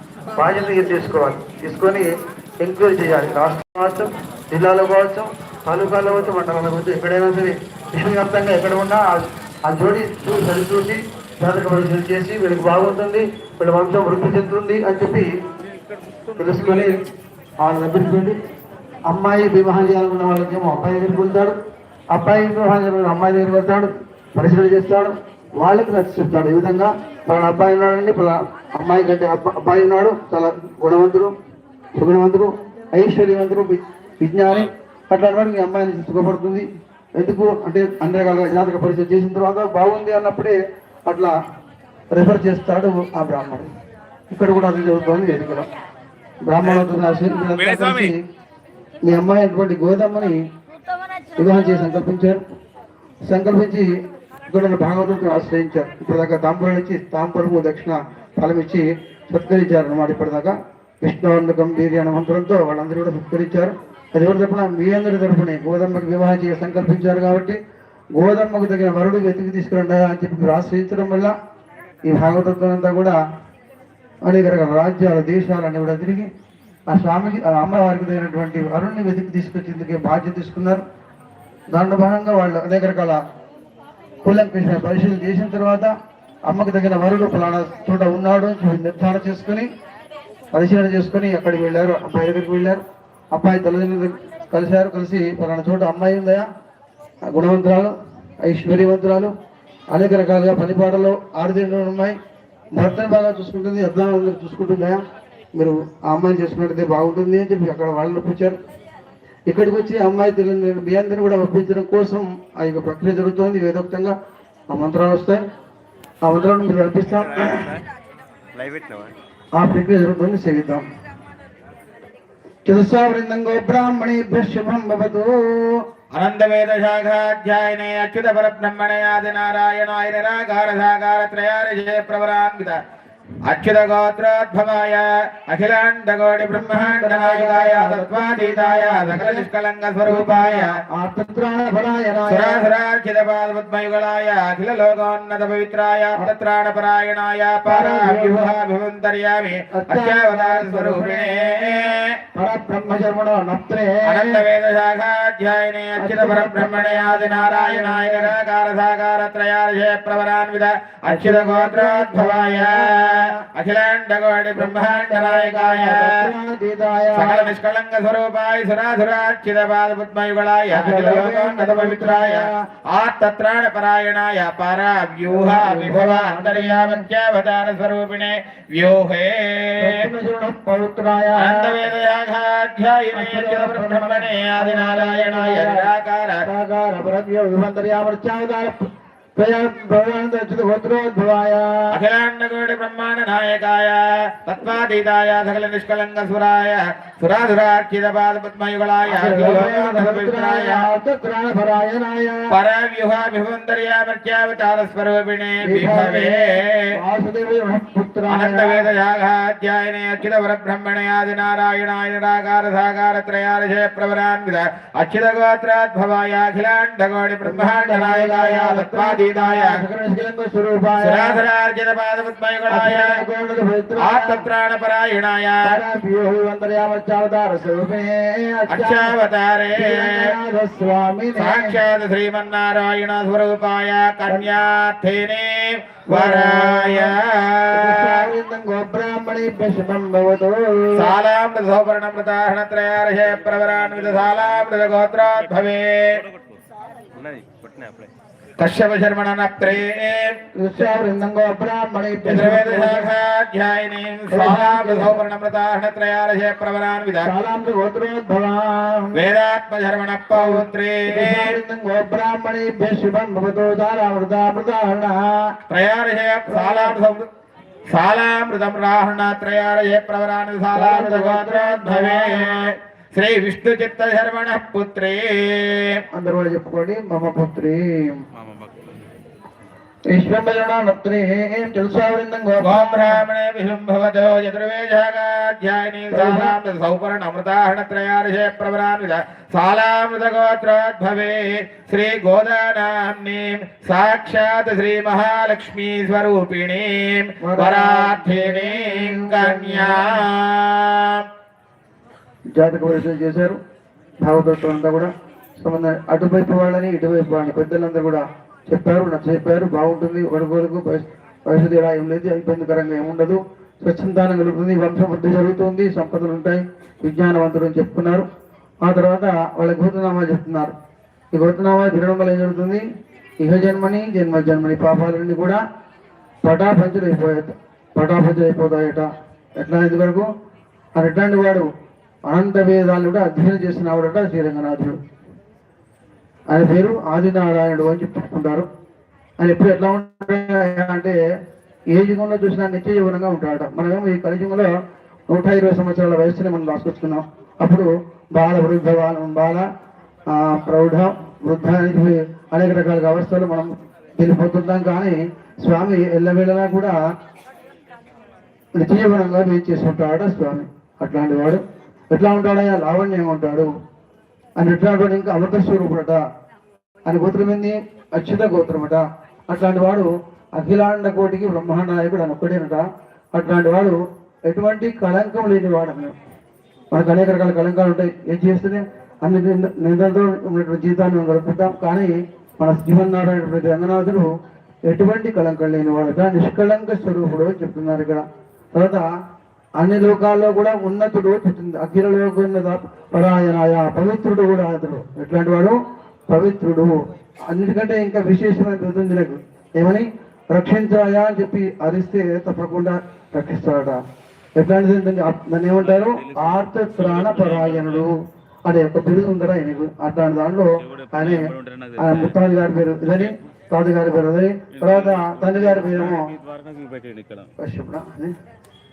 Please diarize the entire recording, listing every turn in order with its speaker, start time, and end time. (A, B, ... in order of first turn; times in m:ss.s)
0:00.3-0:02.1 A
0:02.6-0:15.3 A
0:16.3-0:17.0 A
0:17.6-0:18.4 A
0:19.1-0:21.5 A
0:22.1-0:31.3 A
0:32.0-0:36.6 A
0:37.2-0:40.6 A
0:41.1-0:41.3 A
0:42.1-0:43.7 A
0:44.3-0:45.7 A
0:46.4-0:48.2 A
0:47.5-0:48.1 B
0:49.0-0:50.4 A
0:51.4-0:52.4 A
0:53.3-0:53.9 A
0:54.5-1:07.6 A
1:08.2-1:11.3 A
1:12.0-1:13.2 A
1:14.2-1:16.3 A
1:16.9-1:20.8 A
1:21.7-1:23.2 A
1:24.2-1:25.9 A
1:26.5-1:29.7 A
1:30.5-1:32.8 A
1:33.3-1:36.4 A
1:37.3-1:39.3 A
1:39.9-1:42.2 A
1:42.8-1:45.0 A
1:45.6-1:48.6 A
1:49.5-1:54.1 A
1:54.7-1:55.4 A
1:56.2-1:57.7 A
1:58.7-1:59.1 C
1:59.6-2:00.8 A
2:02.6-2:05.8 A
2:06.1-2:12.8 B
2:13.4-2:20.8 B
2:16.5-2:19.5 A
2:20.0-2:22.7 A
2:22.3-2:32.2 B
2:27.6-2:28.6 A
2:29.7-2:34.4 A
2:34.0-2:46.3 B
2:36.0-2:38.3 A
2:41.0-2:43.4 A
2:44.5-2:47.5 A
2:47.1-3:00.1 B
2:50.7-2:52.6 A
2:55.2-2:57.0 A
2:59.8-3:01.8 A
3:01.4-3:06.4 B
3:03.1-3:05.9 A
3:06.4-3:11.9 A
3:11.9-3:20.8 B
3:19.1-3:22.4 A
3:22.5-3:26.9 B
3:25.6-3:28.8 A
3:28.3-3:39.8 B
3:37.4-3:41.4 A
3:41.0-3:43.2 B
3:42.7-3:44.4 A
3:44.0-3:45.8 B
3:45.6-3:49.1 A
3:48.7-3:50.3 B
3:49.8-3:51.8 A
3:51.3-3:58.3 B
3:56.1-3:57.2 A
3:57.7-4:01.1 A
4:01.0-4:06.2 B
4:07.2-4:08.1 C
4:08.6-4:10.4 B
4:10.6-4:13.1 A
4:12.2-4:17.3 B
4:14.3-4:15.2 A
4:17.2-4:19.3 A
4:19.1-4:21.5 B
4:20.3-4:25.5 A
4:25.7-4:27.3 B
4:26.5-4:27.0 A
4:27.9-4:36.0 B
4:30.7-4:32.6 A
4:36.1-4:38.2 A
4:38.4-4:38.7 B
4:40.1-4:43.2 A
4:42.6-5:01.2 B
4:46.1-4:46.6 A
4:57.4-5:00.2 A
5:02.6-5:03.6 A
5:04.2-5:18.2 A
5:18.8-5:20.7 A
5:21.3-5:22.8 A
5:23.4-5:25.6 A
5:26.4-5:30.3 A
5:31.0-5:31.7 A
5:32.3-5:35.0 A
5:36.5-5:38.7 A
5:39.4-5:41.2 A
5:41.9-5:44.7 A
5:45.3-5:49.6 A
5:50.3-5:57.0 A
5:58.8-6:03.7 A
6:04.6-6:06.2 A
6:07.0-6:16.1 A
6:16.9-6:24.3 A
6:24.9-6:29.0 A
6:29.8-6:35.8 A
6:36.3-6:37.0 A
6:37.5-6:44.0 A
6:44.6-6:56.3 A
6:46.1-6:46.5 C
6:47.1-6:47.9 C
6:51.2-6:52.1 C
6:54.9-6:57.5 C
6:57.6-6:58.3 A